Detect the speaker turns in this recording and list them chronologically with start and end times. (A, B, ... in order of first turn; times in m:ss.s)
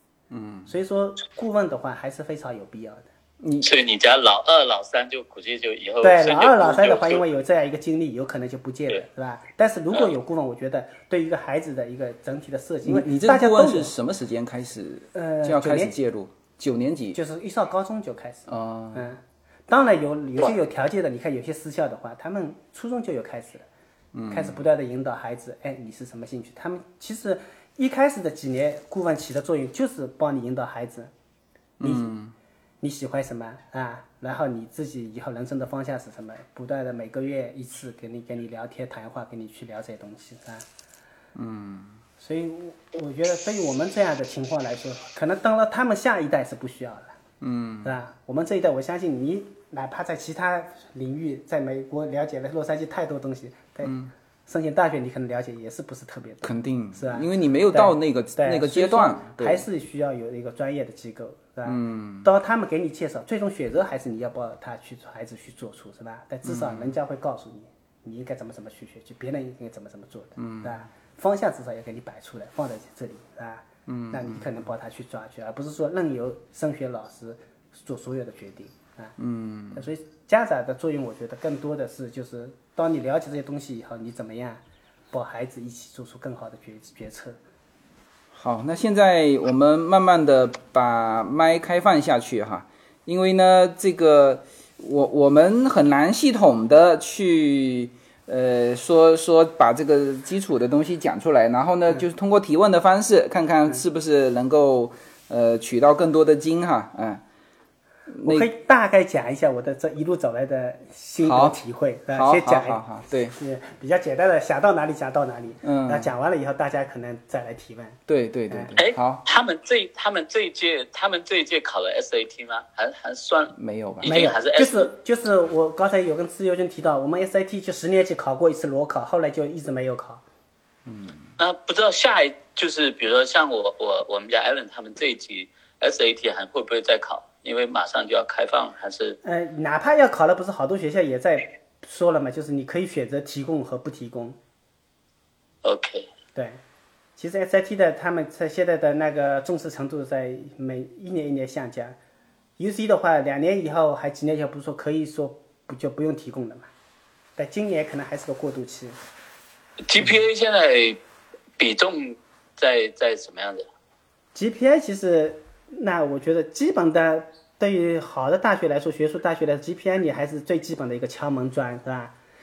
0:00.3-0:00.7 A
0:00.7-0:03.1 B
0:03.4-0:03.7 A
0:03.6-0:07.2 C
0:06.0-0:13.9 B
0:12.8-0:17.2 A
0:15.1-0:16.0 B
0:17.1-0:23.7 B
0:18.5-0:19.1 A
0:24.1-0:24.6 A
0:24.3-0:31.1 B
0:31.8-0:32.4 A
0:31.8-0:32.1 B
0:32.8-0:40.7 B
0:41.4-0:42.0 A
0:42.2-0:47.2 B
0:47.4-0:48.0 A
0:47.8-0:53.9 B
0:53.8-0:54.1 A
0:54.5-1:19.2 B
0:56.4-0:59.7 A
1:01.6-1:02.3 A
1:06.4-1:06.9 A
1:10.4-1:10.9 A
1:13.9-1:14.5 A
1:19.2-1:19.9 A
1:19.7-1:27.4 B
1:28.3-1:47.2 A
1:48.1-1:48.5 A
1:48.2-1:58.7 B
1:51.2-1:51.6 A
1:52.1-1:53.4 A
1:55.6-1:56.1 A
1:58.1-1:59.2 A
1:58.8-2:04.9 C
2:03.6-2:04.3 A
2:04.0-2:10.2 B
2:10.9-2:11.4 A
2:11.4-2:19.2 C
2:19.2-2:24.4 B
2:25.6-2:26.1 C
2:26.4-2:26.6 B
2:27.2-2:32.0 B
2:32.6-2:36.7 B
2:37.4-2:39.0 B
2:39.9-2:41.0 C
2:41.6-2:43.7 C
2:44.3-2:52.2 B